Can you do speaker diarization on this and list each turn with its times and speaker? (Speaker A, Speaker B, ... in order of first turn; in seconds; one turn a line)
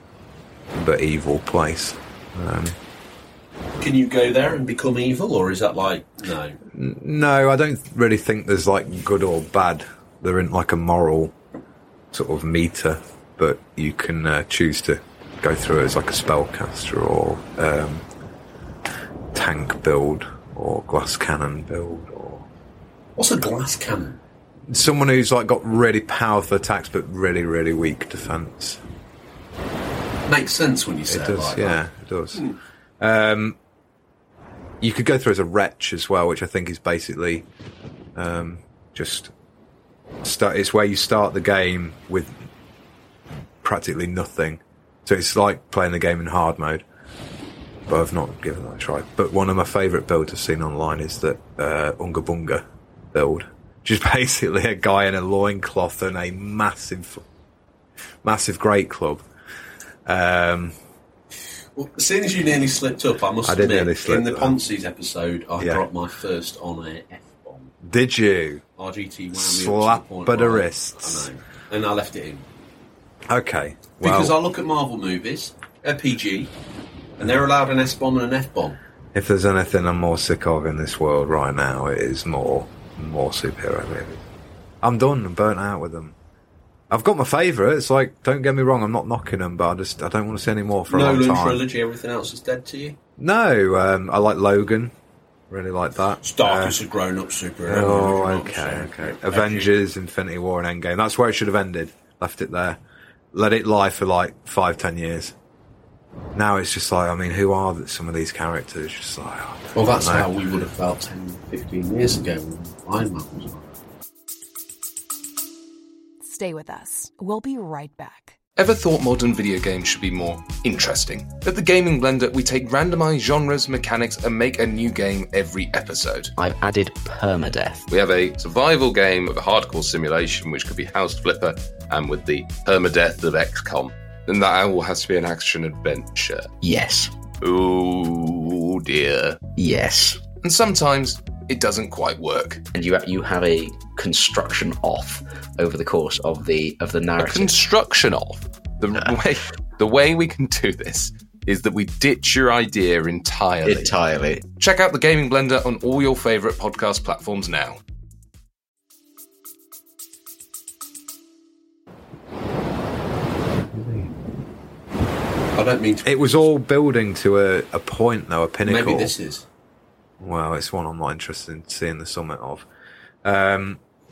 Speaker A: 0.7-2.8
Speaker B: 3.8-6.6
Speaker A: 6.7-11.3
Speaker A: 12.1-18.0
Speaker A: 19.3-22.4
Speaker B: 23.1-24.2
Speaker A: 24.7-28.8
Speaker B: 30.3-31.8
Speaker A: 31.1-32.4
Speaker A: 33.0-33.6
Speaker A: 34.8-37.5
Speaker A: 38.1-39.3
Speaker A: 40.2-42.5
Speaker A: 43.6-46.8
Speaker A: 47.9-57.2
Speaker A: 58.2-59.2
Speaker A: 60.0-60.7
Speaker B: 61.8-67.7
Speaker A: 63.4-64.6
Speaker A: 65.6-65.8
Speaker A: 67.8-68.6
Speaker B: 68.8-72.5
Speaker A: 69.3-71.3
Speaker A: 73.3-74.3
Speaker B: 74.0-76.5
Speaker B: 77.2-78.8
Speaker A: 79.1-84.2
Speaker A: 84.8-86.1
Speaker A: 86.9-91.6
Speaker B: 90.9-93.0
Speaker A: 93.2-94.9
Speaker A: 95.5-96.8
Speaker B: 96.2-99.7
Speaker A: 97.7-102.8
Speaker A: 103.3-105.3
Speaker A: 106.3-110.3
Speaker B: 109.7-113.8
Speaker C: 116.2-118.4
Speaker D: 118.6-126.3
Speaker E: 126.4-127.8
Speaker D: 127.9-136.5
Speaker E: 136.6-137.1
Speaker D: 137.4-139.5
Speaker E: 139.6-140.2
Speaker D: 140.3-142.7
Speaker E: 142.7-147.6
Speaker D: 147.2-157.8
Speaker E: 153.6-154.4
Speaker A: 163.7-164.1
Speaker B: 165.6-166.2
Speaker A: 166.0-169.1
Speaker B: 168.6-169.4
Speaker A: 170.2-172.7
Speaker A: 173.2-173.8